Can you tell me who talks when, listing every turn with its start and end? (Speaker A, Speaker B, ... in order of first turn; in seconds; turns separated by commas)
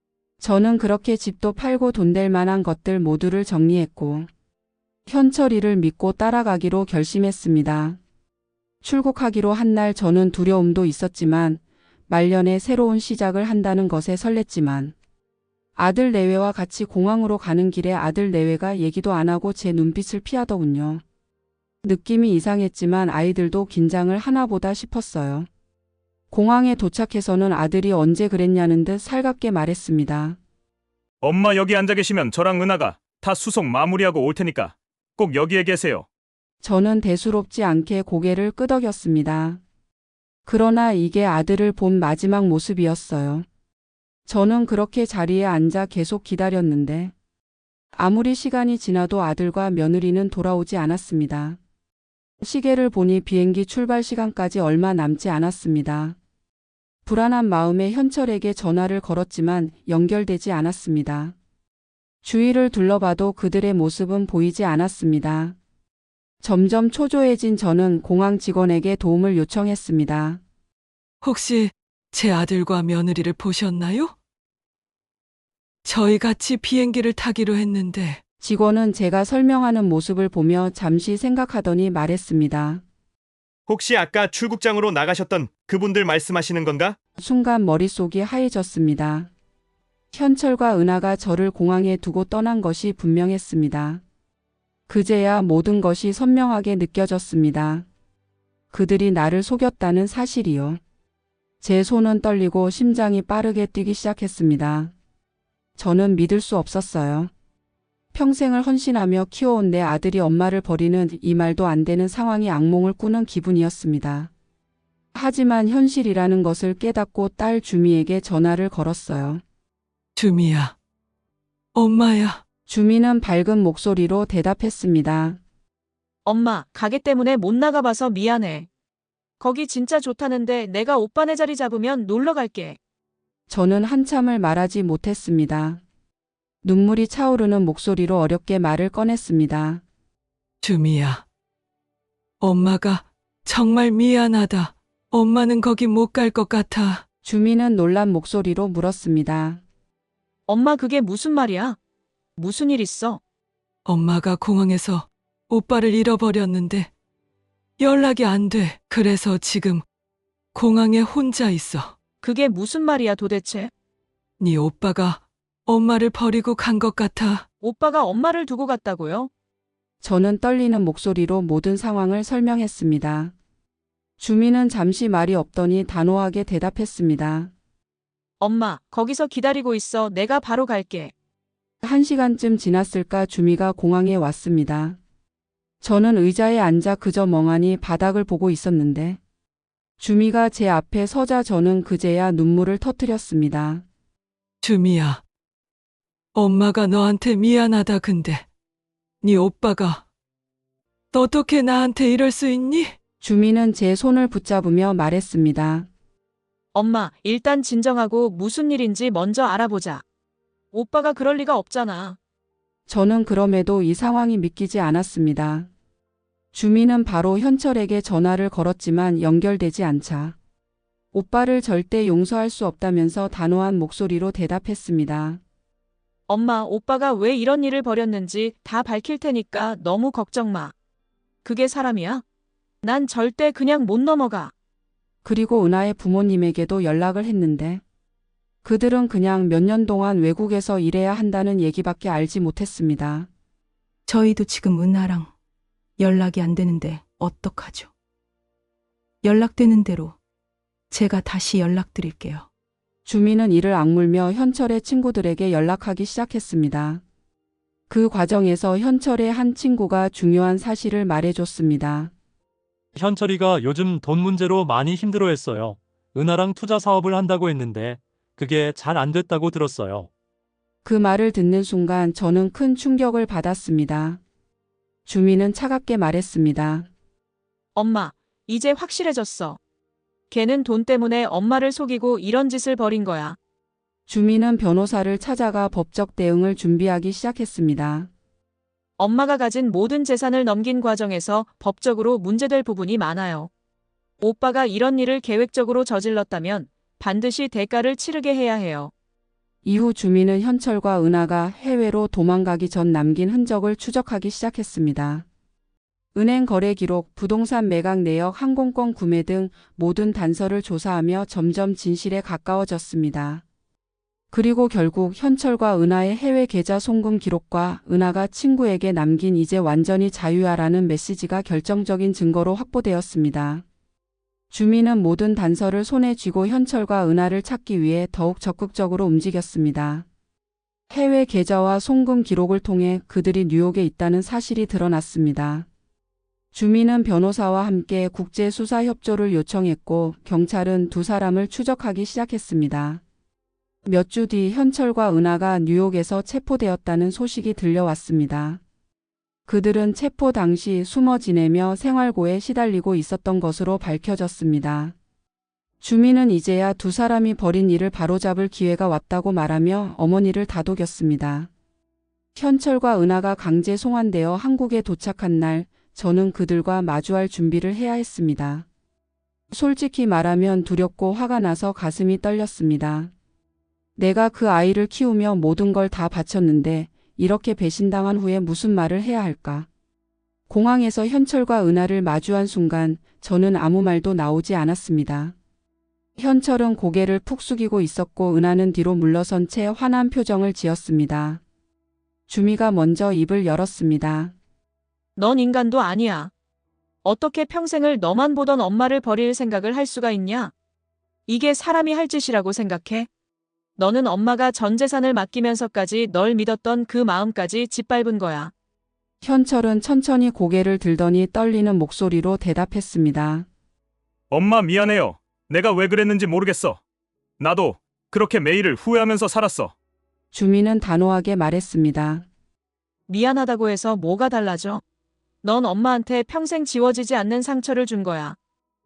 Speaker A: 0.4-4.3, Speaker A: 5.1-8.0, Speaker A: 8.8-14.9, Speaker A: 15.8-21.0, Speaker A: 21.8-25.5, Speaker A: 26.3-30.4, Speaker B: 31.2-36.0, Speaker A: 36.6-39.6, Speaker A: 40.5-43.4, Speaker A: 44.3-47.1, Speaker A: 47.9-51.6, Speaker A: 52.4-56.2, Speaker A: 57.0-61.3, Speaker A: 62.2-65.5, Speaker A: 66.4-70.4, Speaker C: 71.2-74.1, Speaker C: 75.8-78.2, Speaker A: 78.4-82.8, Speaker D: 83.7-87.0, Speaker A: 87.2-89.3, Speaker A: 90.1-94.0, Speaker A: 94.9-97.8, Speaker A: 98.7-100.8, Speaker A: 101.6-104.9, Speaker A: 105.8-107.3, Speaker A: 108.1-114.3, Speaker A: 115.1-119.4, Speaker C: 120.2-120.7, Speaker C: 121.7-122.4, Speaker A: 122.7-125.4, Speaker E: 126.2-128.7, Speaker E: 129.4-132.8, Speaker A: 133.5-135.8, Speaker A: 136.6-139.8, Speaker C: 140.6-141.2, Speaker C: 142.4-147.0, Speaker A: 147.2-149.6, Speaker E: 150.5-151.8, Speaker E: 152.4-153.2, Speaker C: 153.8-156.9, Speaker C: 157.8-159.8, Speaker C: 160.5-161.9, Speaker E: 162.2-163.7, Speaker C: 164.4-167.4, Speaker E: 167.6-169.3, Speaker A: 170.0-173.3, Speaker A: 174.2-177.5, Speaker E: 178.4-181.1, Speaker A: 181.8-185.0, Speaker A: 185.8-189.2, Speaker A: 190.0-193.8, Speaker C: 194.6-195.2, Speaker C: 196.3-198.4, Speaker C: 199.2-200.0, Speaker C: 201.1-202.9, Speaker A: 203.2-205.9, Speaker E: 206.7-210.0, Speaker E: 210.7-212.2, Speaker A: 212.9-215.7, Speaker A: 216.5-220.3, Speaker A: 221.1-225.4, Speaker E: 226.3-230.7, Speaker E: 231.4-232.2, Speaker E: 232.8-234.5, Speaker A: 235.2-237.8, Speaker A: 238.6-243.3, Speaker F: 244.1-245.3, Speaker F: 246.0-247.9, Speaker F: 249.2-250.2, Speaker F: 250.9-252.4, Speaker A: 253.1-257.0, Speaker A: 257.9-262.1, Speaker G: 262.9-270.1, Speaker A: 270.8-274.2, Speaker A: 275.1-276.9, Speaker E: 277.7-279.6, Speaker E: 280.3-283.4, Speaker A: 284.1-288.1, Speaker E: 289.0-293.5, Speaker E: 294.2-298.9, Speaker A: 299.6-305.2, Speaker A: 306.1-313.4, Speaker A: 314.3-323.6, Speaker A: 324.5-330.1, Speaker A: 330.9-335.7, Speaker A: 336.5-343.0, Speaker A: 343.9-348.6, Speaker A: 349.5-354.9, Speaker A: 355.8-361.5, Speaker A: 362.4-368.6, Speaker A: 369.5-373.1, Speaker A: 374.0-379.7, Speaker A: 380.5-385.3, Speaker A: 386.2-391.4, Speaker A: 392.3-394.3, Speaker E: 395.1-396.3, Speaker E: 397.0-400.5, Speaker E: 401.3-403.1, Speaker E: 403.8-408.5, Speaker A: 409.2-413.4, Speaker B: 414.3-416.8, Speaker B: 417.4-419.7, Speaker A: 420.3-422.2, Speaker E: 423.1-424.8, Speaker E: 425.4-428.4